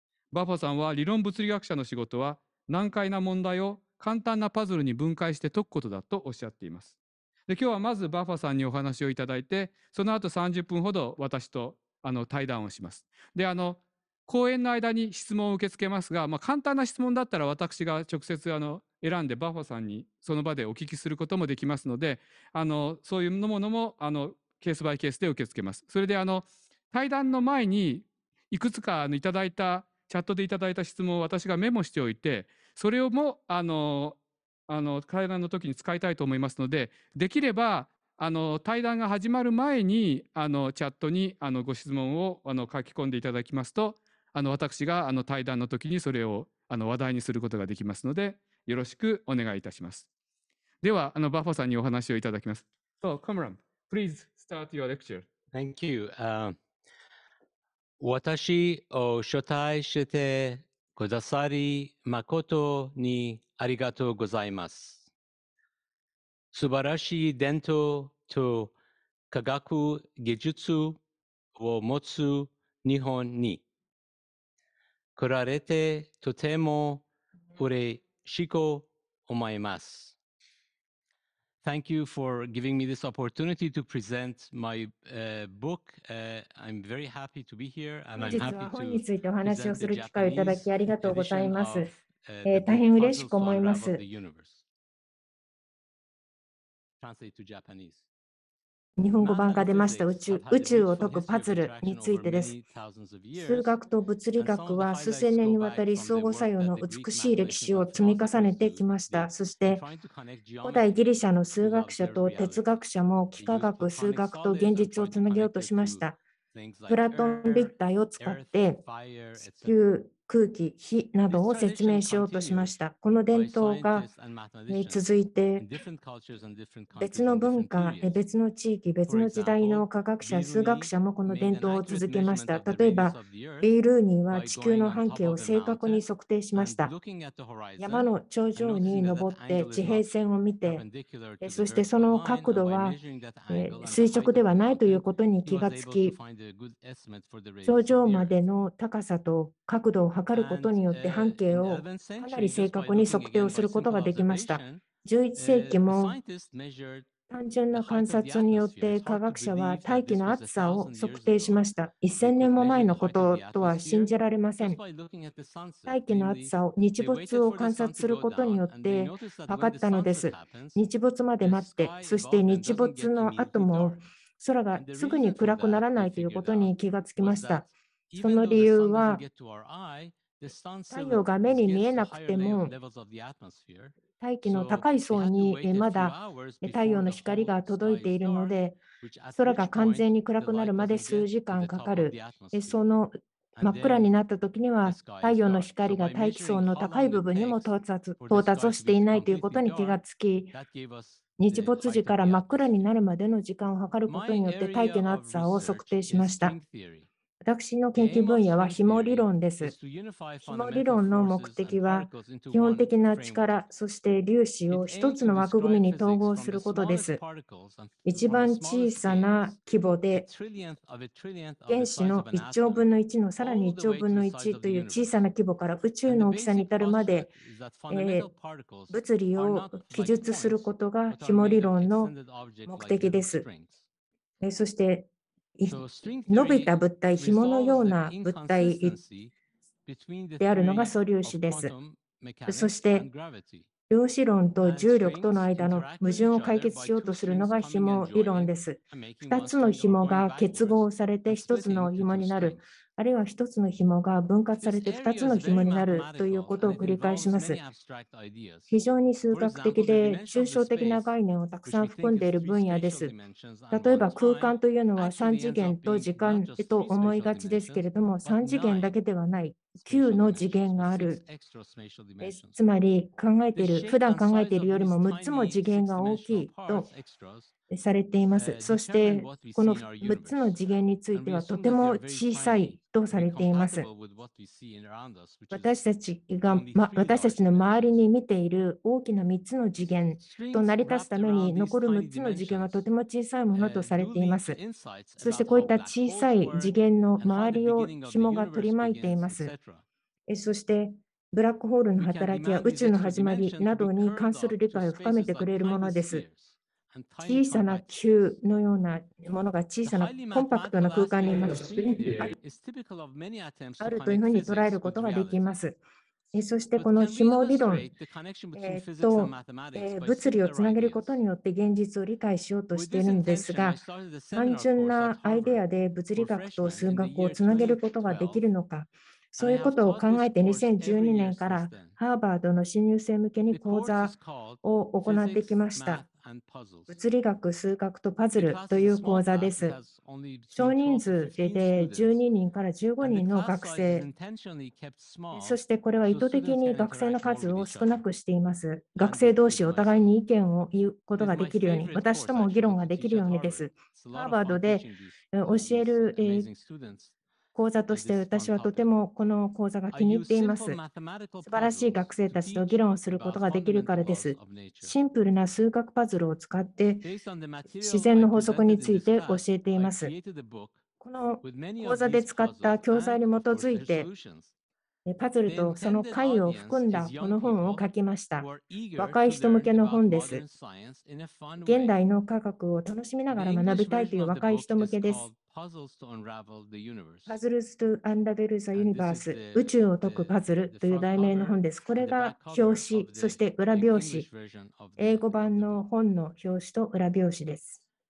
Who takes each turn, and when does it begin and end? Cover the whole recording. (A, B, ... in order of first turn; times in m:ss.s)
0:00.3-0:06.9 A
0:07.5-0:50.0 A
0:50.8-0:55.2 A
0:55.5-0:56.6 B
0:58.0-1:05.1 B
1:06.5-1:08.7 B
1:09.3-1:11.0 B
1:11.5-1:13.6 B
1:15.2-1:17.0 B
1:17.5-1:20.1 B
1:21.6-1:34.6 B
1:28.2-1:31.9 C
1:32.4-1:34.0 C
1:37.0-1:38.0 B
1:39.0-1:42.5 C
1:39.2-1:43.8 B
1:43.4-1:49.8 C
1:44.3-1:52.7 B
1:50.6-1:56.2 C
1:53.3-1:59.8 B
1:56.9-1:58.8 C
1:59.6-2:04.1 C
2:01.3-2:02.7 B
2:03.3-2:05.0 B
2:04.7-2:05.6 C
2:05.6-2:08.2 B
2:07.0-2:16.9 C
2:09.1-2:13.7 B
2:14.3-2:20.1 B
2:17.8-2:20.8 C
2:20.6-2:28.4 B
2:21.4-2:23.0 C
2:23.5-2:26.1 C
2:27.6-2:36.2 C
2:30.3-2:34.8 B
2:35.4-2:37.1 B
2:37.3-2:44.8 C
2:37.7-2:50.8 B
2:45.9-2:57.6 C
2:51.4-2:54.0 B
2:54.7-3:12.8 B
2:58.2-2:59.2 C
3:00.9-3:02.7 C
3:04.2-3:08.8 C
3:09.4-3:20.5 C
3:13.6-3:14.1 B
3:14.8-3:22.7 B
3:21.4-3:26.5 C
3:24.0-3:27.1 B
3:27.4-3:29.7 C
3:27.9-3:33.6 B
3:30.5-3:37.2 C
3:34.7-3:39.6 B
3:38.0-3:40.2 C
3:40.1-3:45.2 B
3:41.7-3:47.3 C
3:46.0-3:53.8 B
3:47.9-3:48.3 C
3:48.9-3:52.1 C
3:52.6-3:53.4 C
3:54.4-3:55.8 C
3:55.7-3:59.3 B
3:56.3-3:59.0 C
3:59.8-4:03.7 B
4:00.4-4:01.7 C
4:02.5-4:03.1 C
4:03.9-4:17.6 C
4:04.6-4:12.6 B
4:14.6-4:21.1 B
4:18.7-4:23.1 C
4:21.6-4:28.9 B
4:23.7-4:31.2 C
4:29.8-4:32.6 B
4:32.2-4:36.9 C
4:33.5-4:37.5 B
4:37.7-4:43.9 C
4:38.3-4:45.9 B
4:45.5-4:54.6 C
4:46.4-4:48.0 B
4:50.2-4:52.8 B
4:53.5-4:59.8 B
4:55.2-4:59.5 C
5:00.3-5:06.2 C
5:02.0-5:07.9 B
5:07.2-5:12.3 C
5:09.8-5:15.5 B
5:13.8-5:15.8 C
5:16.3-5:17.8 C
5:16.8-5:21.2 B
5:18.6-5:23.8 C
5:22.7-5:28.4 B
5:24.3-5:36.0 C
5:29.4-5:32.0 B
5:33.5-5:36.9 B
5:36.9-5:39.8 C
5:38.4-5:42.2 B
5:40.5-5:44.0 C
5:43.0-5:48.0 B
5:45.3-5:56.5 C
5:49.0-5:50.0 B
5:51.2-5:57.1 B
5:57.5-6:00.8 C
5:57.9-5:58.9 B
5:59.9-6:05.0 B
6:01.4-6:07.1 C
6:07.0-6:10.8 B
6:07.8-6:10.1 C
6:11.0-6:14.1 C
6:11.4-6:14.5 B
6:15.0-6:18.5 C
6:15.4-6:22.0 B
6:19.0-6:20.4 C
6:21.6-6:25.3 C
6:23.3-6:27.4 B
6:27.3-6:34.2 C
6:28.7-6:35.8 B
6:35.0-6:37.8 C